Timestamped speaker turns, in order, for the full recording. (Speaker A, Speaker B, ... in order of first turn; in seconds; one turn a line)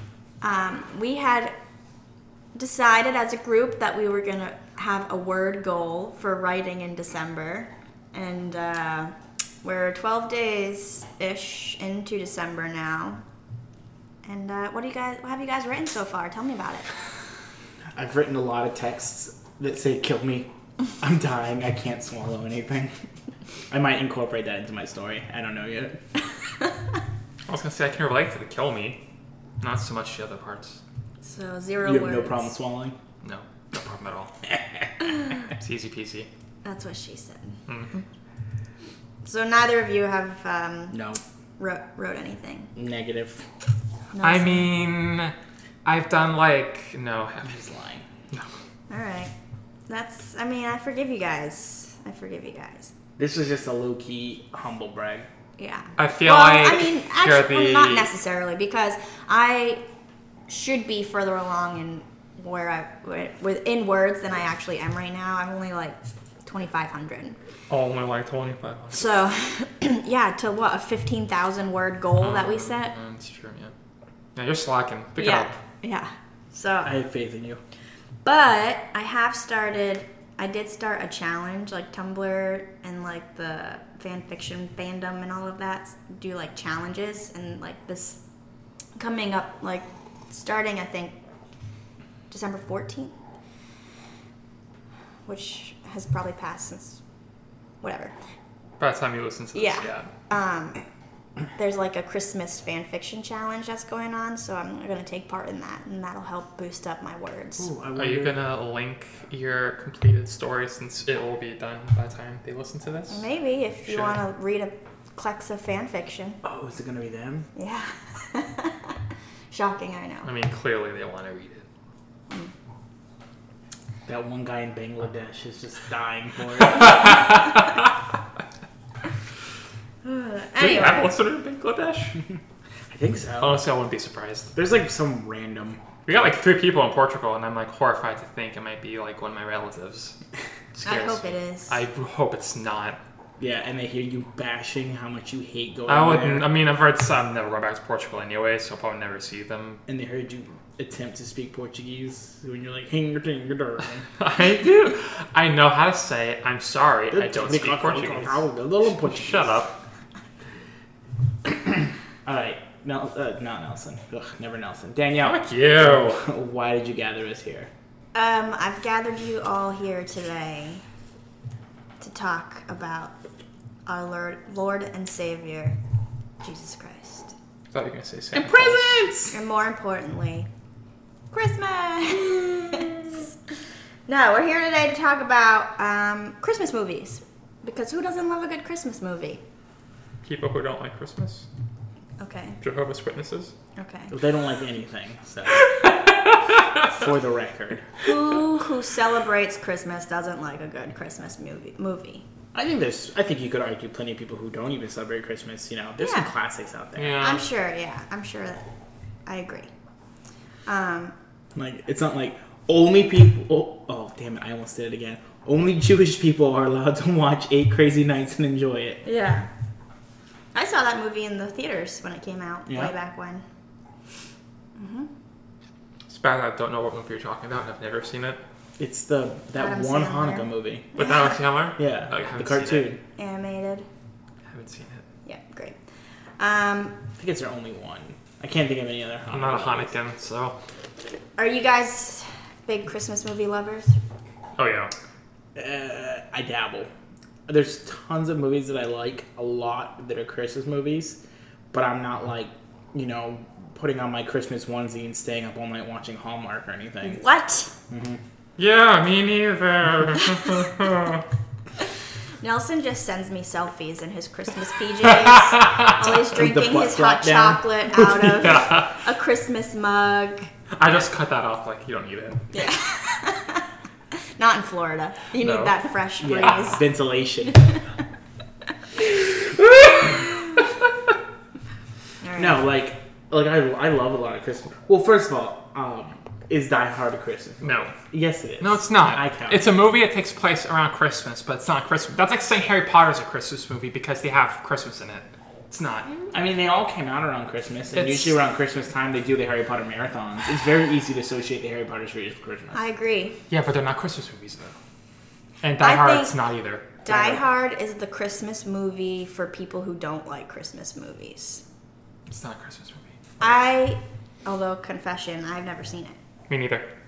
Speaker A: 0.4-1.5
Speaker A: 2.5-13.2
Speaker A: 14.2-16.9
Speaker B: 17.9-22.9
Speaker B: 23.7-26.0
Speaker C: 27.4-29.0
Speaker C: 29.6-30.8
Speaker A: 31.2-32.5
Speaker B: 31.8-33.0
Speaker C: 33.2-34.3
Speaker B: 34.5-34.9
Speaker A: 35.0-35.3
Speaker C: 35.4-36.3
Speaker A: 36.6-37.6
Speaker C: 37.7-38.0
Speaker A: 39.2-41.1
Speaker B: 40.9-41.2
Speaker A: 41.6-42.7
Speaker B: 42.8-43.5
Speaker A: 44.1-44.7
Speaker C: 44.2-45.3
Speaker C: 45.8-47.6
Speaker B: 47.4-48.0
Speaker A: 48.9-49.3
Speaker A: 49.9-52.9
Speaker B: 53.2-55.3
Speaker A: 55.6-59.8
Speaker C: 56.0-58.1
Speaker A: 60.5-67.4
Speaker C: 67.7-69.1
Speaker A: 68.9-72.9
Speaker C: 72.2-73.7
Speaker C: 74.3-75.5
Speaker A: 75.2-77.0
Speaker B: 76.8-77.6
Speaker A: 78.2-88.2
Speaker A: 89.0-91.2
Speaker A: 92.3-93.1
Speaker A: 95.2-97.0
Speaker A: 97.8-98.1
Speaker C: 98.8-100.1
Speaker A: 99.5-100.8
Speaker A: 101.5-107.7
Speaker B: 107.6-108.4
Speaker C: 108.0-113.2
Speaker A: 113.1-116.4
Speaker C: 113.8-114.2
Speaker B: 116.4-117.5
Speaker A: 117.5-119.0
Speaker A: 119.5-120.3
Speaker C: 120.2-121.7
Speaker B: 124.1-127.2
Speaker C: 126.8-127.6
Speaker A: 130.0-131.1
Speaker C: 130.6-132.2
Speaker B: 132.9-133.6
Speaker C: 133.4-134.5
Speaker B: 134.5-135.8
Speaker C: 136.1-140.1
Speaker C: 140.7-143.0
Speaker A: 140.8-141.8
Speaker B: 143.4-146.5
Speaker C: 145.9-149.8
Speaker B: 149.9-154.0
Speaker C: 154.2-159.7
Speaker B: 157.1-159.6
Speaker B: 161.4-167.7
Speaker C: 165.2-166.2
Speaker A: 168.1-170.8
Speaker A: 172.0-173.1
Speaker A: 173.8-175.8
Speaker A: 176.4-177.3
Speaker C: 177.7-178.9
Speaker B: 178.3-179.4
Speaker A: 179.3-180.5
Speaker A: 181.3-183.0
Speaker A: 184.1-189.4
Speaker C: 190.2-191.5
Speaker A: 192.2-192.6
Speaker C: 192.6-193.5
Speaker A: 193.8-194.1
Speaker B: 194.1-195.7
Speaker C: 195.5-196.8
Speaker B: 196.8-197.9
Speaker A: 198.0-202.2
Speaker B: 202.5-207.2
Speaker A: 206.0-206.3
Speaker C: 206.9-207.4
Speaker A: 207.2-208.6
Speaker A: 209.2-209.7
Speaker A: 210.7-211.1
Speaker B: 211.5-219.0
Speaker A: 219.0-219.5
Speaker A: 220.5-223.4
Speaker B: 222.7-222.9
Speaker A: 224.8-225.1
Speaker C: 226.1-228.4
Speaker B: 228.8-230.9
Speaker A: 229.6-231.4
Speaker C: 230.9-232.9
Speaker B: 231.8-233.0
Speaker A: 233.2-233.9
Speaker C: 234.5-235.0
Speaker A: 235.2-235.8
Speaker A: 236.4-237.0
Speaker B: 237.2-239.9
Speaker C: 239.3-240.6
Speaker A: 241.4-244.0
Speaker C: 244.6-244.9
Speaker B: 245.5-246.9
Speaker B: 247.5-251.2
Speaker B: 251.7-257.2
Speaker A: 257.0-257.7
Speaker B: 257.9-258.2
Speaker C: 258.6-261.2
Speaker A: 260.2-260.7
Speaker A: 262.4-270.5
Speaker C: 265.2-265.9
Speaker B: 266.3-268.6
Speaker C: 268.4-268.9
Speaker C: 270.7-272.5
Speaker A: 272.5-276.8
Speaker C: 275.4-275.8
Speaker B: 276.2-277.6
Speaker C: 276.4-276.7
Speaker A: 277.4-277.8
Speaker B: 279.2-280.2
Speaker A: 282.2-282.6
Speaker B: 282.4-289.7
Speaker C: 287.6-288.0
Speaker C: 288.6-296.1
Speaker B: 296.3-302.8
Speaker C: 297.9-298.4
Speaker A: 302.7-303.4
Speaker C: 303.5-304.7
Speaker C: 305.6-306.9
Speaker A: 305.8-306.3
Speaker A: 307.0-311.6
Speaker B: 307.1-307.4
Speaker C: 312.3-313.2
Speaker A: 313.4-316.1
Speaker C: 316.5-316.9